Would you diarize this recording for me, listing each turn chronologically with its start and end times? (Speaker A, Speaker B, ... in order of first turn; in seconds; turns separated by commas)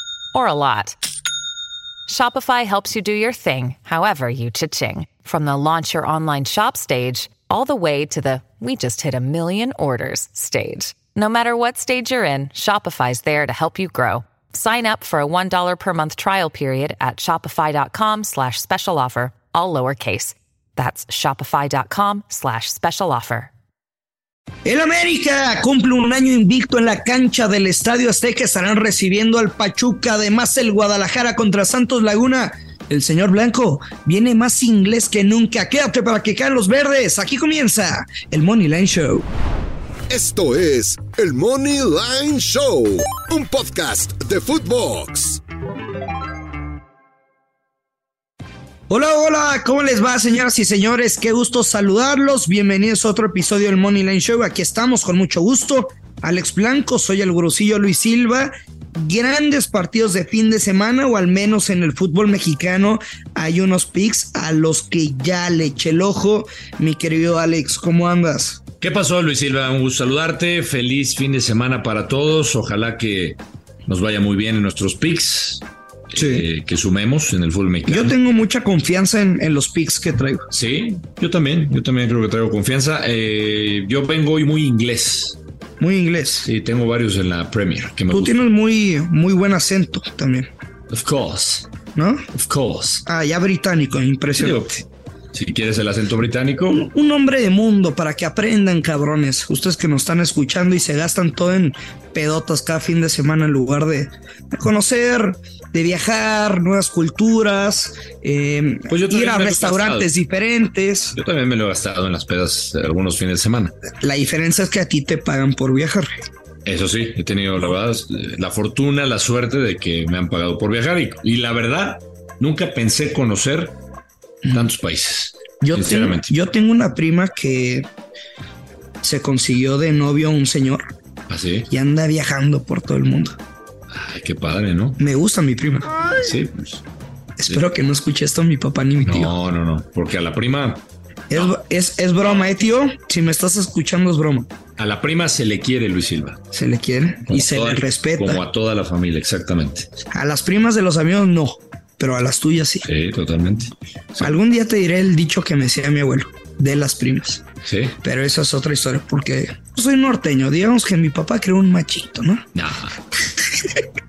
Speaker A: 0.3-1.0, Speaker A: 2.1-23.5, Speaker B: 24.6-39.3, Speaker C: 40.1-45.4, Speaker B: 48.9-68.6, Speaker D: 68.8-78.2, Speaker B: 76.2-76.5, Speaker B: 77.9-80.5, Speaker D: 80.5-85.4, Speaker B: 85.8-86.5, Speaker D: 86.4-88.5, Speaker B: 88.1-90.5, Speaker D: 90.9-91.7, Speaker B: 92.0-92.3, Speaker D: 92.3-93.0, Speaker B: 93.0-94.8, Speaker D: 94.4-96.9, Speaker B: 96.7-111.2, Speaker D: 108.9-110.1, Speaker D: 111.2-113.8, Speaker B: 114.0-116.1, Speaker D: 116.7-123.8, Speaker D: 124.5-126.3, Speaker B: 125.6-127.9, Speaker B: 129.0-130.9, Speaker D: 131.3-131.7, Speaker B: 131.7-133.4, Speaker D: 133.9-135.0, Speaker B: 135.0-136.0, Speaker D: 136.2-136.8, Speaker B: 137.4-139.3, Speaker D: 139.1-141.6, Speaker B: 141.3-144.5, Speaker D: 144.8-146.4, Speaker B: 146.5-148.4, Speaker D: 147.3-149.9, Speaker B: 150.1-152.9, Speaker D: 152.8-154.3, Speaker B: 154.2-157.4, Speaker D: 157.7-158.0, Speaker B: 158.0-162.4, Speaker D: 162.6-163.0